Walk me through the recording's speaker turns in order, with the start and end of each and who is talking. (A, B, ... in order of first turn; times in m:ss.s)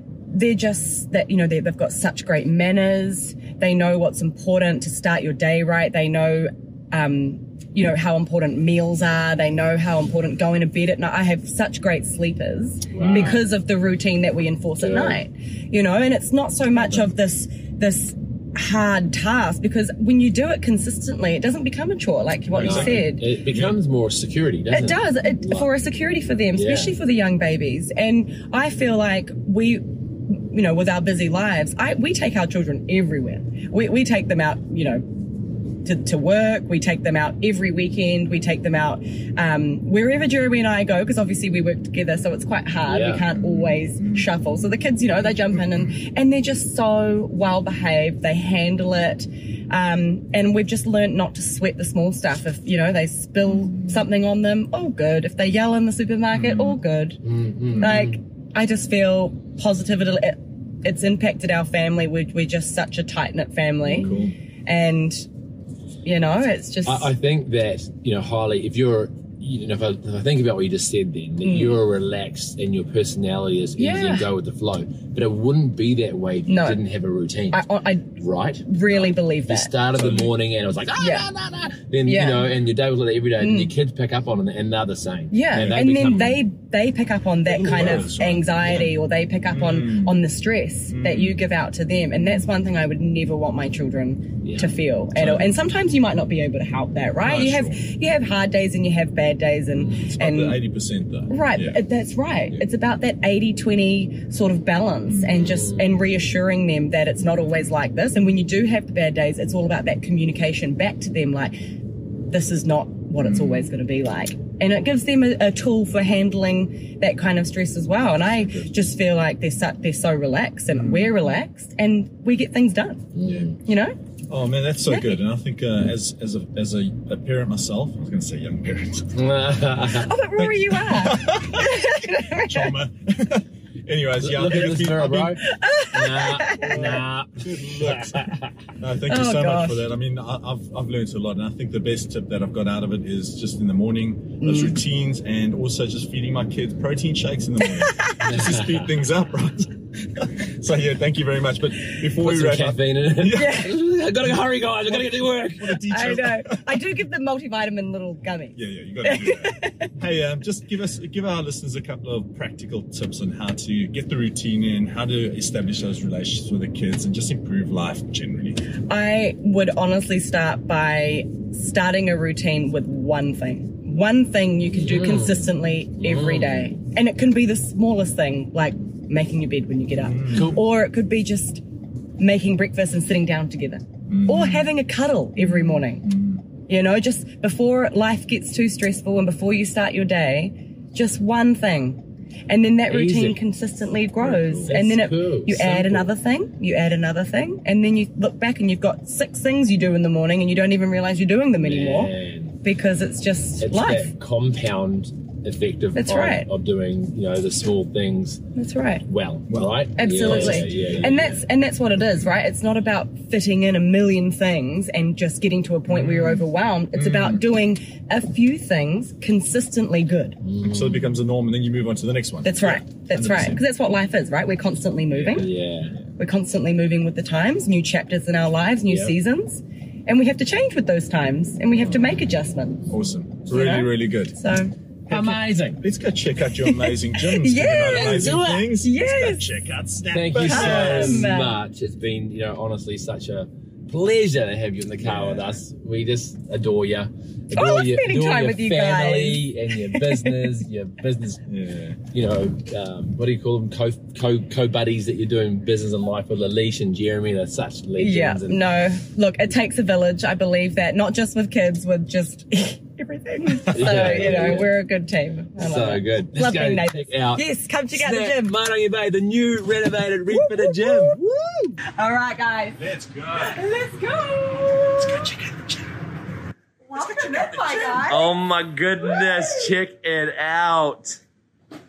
0:00.3-0:23.2 A
0:12.9-0:13.4 B
0:14.8-0:15.2 B
0:22.5-0:25.7 B
0:22.6-0:23.8 C
0:24.7-0:35.1 A
0:26.5-0:26.9 B
0:35.8-1:04.1 A
0:42.9-0:43.2 B
0:43.4-0:44.3 C
0:56.3-0:56.8 C
0:57.2-0:58.2 B
1:03.9-1:04.3 C
1:04.0-1:04.3 B
1:04.6-1:05.3 A
1:06.0-1:07.1 A
1:06.8-1:26.4 B
1:11.4-1:11.8 A
1:13.8-1:14.3 A
1:16.5-1:16.8 A
1:17.5-1:18.1 A
1:18.6-1:19.7 A
1:20.0-1:20.3 C
1:21.0-1:21.2 A
1:22.0-1:22.5 A
1:23.4-1:23.7 A
1:25.3-1:40.6 A
1:25.6-1:25.8 C
1:27.5-1:28.9 C
1:27.7-1:28.0 B
1:29.5-1:30.2 C
1:30.9-1:31.4 C
1:34.4-1:34.7 B
1:35.2-1:35.4 C
1:37.2-1:37.8 C
1:39.9-1:41.8 C
1:41.3-1:51.6 A
1:45.1-1:45.4 C
1:45.4-1:45.8 B
1:52.3-2:04.0 A
2:00.7-2:01.1 C
2:03.1-2:03.5 B
2:03.2-2:03.5 C
2:04.3-2:09.3 C
2:04.9-2:05.2 A
2:09.1-2:10.5 B
2:09.8-2:12.7 A
2:10.9-2:15.4 C
2:14.2-2:18.5 B
2:15.4-2:16.8 A
2:16.6-2:33.6 C
2:19.1-2:19.8 A
2:24.4-2:24.8 A
2:27.6-2:28.3 A
2:28.2-2:28.9 B
2:32.0-2:35.8 B
2:33.3-2:33.8 A
2:34.9-2:36.8 C
2:35.9-2:39.9 A
2:38.6-2:48.6 C
2:48.9-3:01.6 A
2:54.7-2:56.8 B
3:00.1-3:00.5 C
3:00.3-3:00.6 B
3:02.2-3:06.1 A
3:04.1-3:04.7 C
3:06.0-3:06.4 C
3:06.7-3:24.1 A
3:12.9-3:13.4 B
3:14.2-3:16.1 B
3:21.6-3:22.6 B
3:23.6-3:28.4 B
3:26.0-3:26.5 A
3:28.5-3:29.0 A
3:29.1-3:31.4 B
3:29.5-3:31.2 C
3:30.0-3:40.4 A
3:35.9-3:37.4 C
3:40.4-3:41.1 B
3:40.6-3:43.6 C
3:42.4-3:45.5 A
3:45.1-3:46.0 C
3:45.3-3:46.0 B
3:46.2-3:52.8 A
3:48.9-3:49.1 B
3:52.9-3:54.4 C
3:53.5-3:54.7 A
3:55.1-3:55.8 B
3:55.1-4:01.4 C
3:56.6-3:59.6 A
3:57.9-3:58.7 B
4:00.1-4:11.4 B
4:00.4-4:01.6 A
4:05.0-4:05.5 C
4:07.5-4:10.5 A
4:11.5-4:12.0 C
4:12.1-4:18.6 B
4:18.0-4:28.5 A
4:23.7-4:24.7 B
4:25.6-4:31.8 B
4:30.3-4:31.2 A
4:31.8-4:35.7 A
4:32.8-4:33.6 C
4:36.8-4:38.3 A
4:37.0-4:38.0 C
4:38.0-4:41.2 B